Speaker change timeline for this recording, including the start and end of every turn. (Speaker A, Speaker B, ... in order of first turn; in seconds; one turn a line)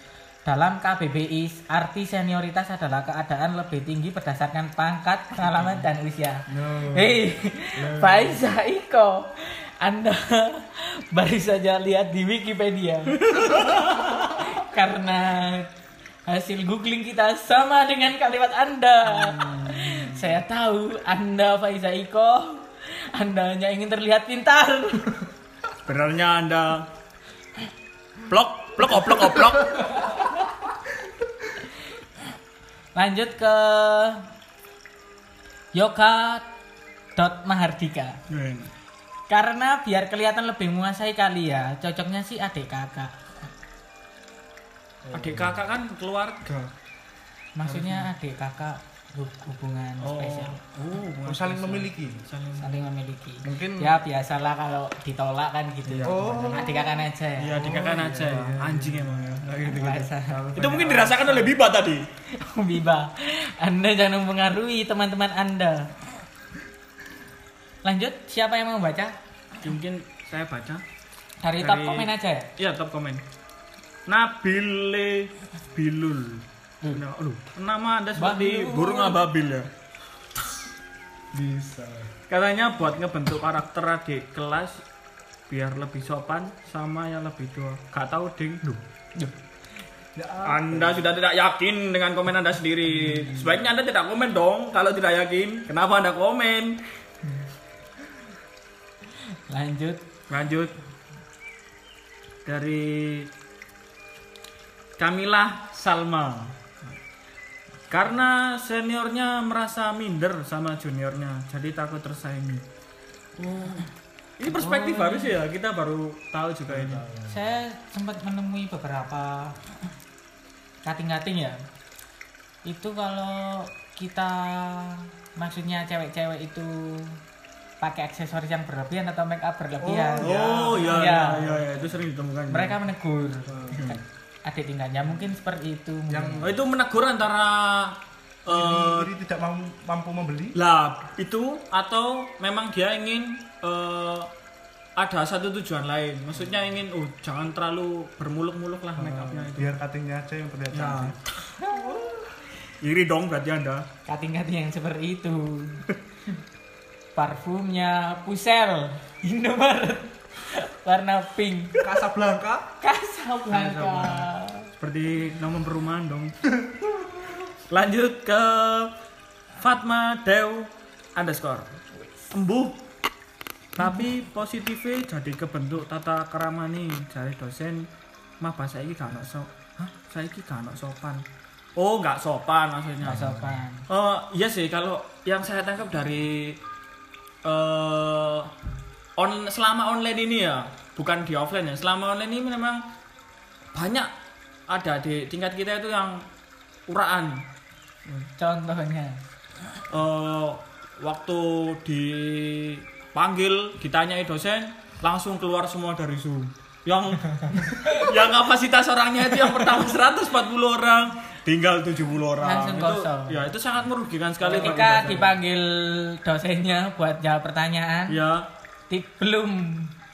Speaker A: 0.4-13.7
Speaker B: 6.5-8.5
Speaker C: 13.2-14.4
Speaker A: 14.3-15.7
Speaker A: 16.3-25.1
Speaker C: 19.1-20.1
Speaker C: 25.9-26.9
Speaker C: 28.3-30.2
Speaker A: 29.7-30.3
Speaker A: 32.9-34.2
Speaker A: 35.7-36.5
Speaker A: 37.1-38.2
Speaker C: 38.3-38.7
Speaker A: 39.3-43.1
Speaker B: 45.0-45.6
Speaker C: 45.1-46.7
Speaker A: 47.5-50.6
Speaker C: 47.6-48.1
Speaker C: 50.0-52.8
Speaker B: 51.2-52.2
Speaker A: 52.6-57.7
Speaker B: 53.4-54.0
Speaker C: 55.9-56.7
Speaker B: 56.0-61.5
Speaker C: 57.4-62.0
Speaker A: 59.6-60.4
Speaker A: 62.3-65.9
Speaker A: 67.8-69.2
Speaker C: 69.6-70.8
Speaker A: 71.4-72.5
Speaker C: 71.6-73.2
Speaker C: 74.1-79.7
Speaker A: 78.2-79.2
Speaker B: 81.3-82.1
Speaker C: 82.3-84.8
Speaker C: 85.5-88.8
Speaker B: 90.2-91.1
Speaker C: 90.4-96.8
Speaker B: 93.1-93.5
Speaker A: 99.5-100.0
Speaker C: 100.3-100.7
Speaker C: 102.5-103.3
Speaker C: 105.0-106.5
Speaker C: 107.9-112.6
Speaker C: 113.4-113.9
Speaker C: 114.4-117.0
Speaker A: 114.5-115.3
Speaker B: 116.7-117.5
Speaker A: 117.3-119.6
Speaker A: 120.8-121.6
Speaker A: 122.6-127.2
Speaker A: 127.8-131.6
Speaker B: 129.8-131.7
Speaker C: 130.2-132.8
Speaker A: 132.5-136.5
Speaker B: 133.4-133.9
Speaker C: 133.7-134.0
Speaker B: 136.1-136.6
Speaker C: 136.4-139.1
Speaker B: 138.5-140.6
Speaker C: 140.5-144.3
Speaker C: 145.0-149.7
Speaker B: 148.9-152.3
Speaker C: 150.7-151.5
Speaker A: 151.6-151.9
Speaker C: 152.8-153.8
Speaker A: 154.1-155.8
Speaker A: 157.2-161.8
Speaker B: 161.8-162.7
Speaker A: 162.8-164.7
Speaker C: 163.5-166.3
Speaker B: 166.6-167.1
Speaker C: 167.7-168.9
Speaker C: 169.6-171.8
Speaker A: 171.9-172.3
Speaker C: 172.3-172.8
Speaker C: 173.7-177.9
Speaker C: 178.4-181.2
Speaker C: 181.8-183.2
Speaker B: 183.0-183.6
Speaker A: 183.0-183.8
Speaker C: 183.9-186.6
Speaker C: 187.4-188.5
Speaker C: 189.2-192.8
Speaker C: 193.7-194.1
Speaker C: 194.7-196.3
Speaker C: 196.9-197.4
Speaker A: 198.4-199.2
Speaker C: 199.9-215.3
Speaker A: 207.8-208.1
Speaker A: 212.4-213.4
Speaker B: 214.4-215.3
Speaker A: 214.5-218.2
Speaker C: 218.1-218.5
Speaker A: 218.9-219.9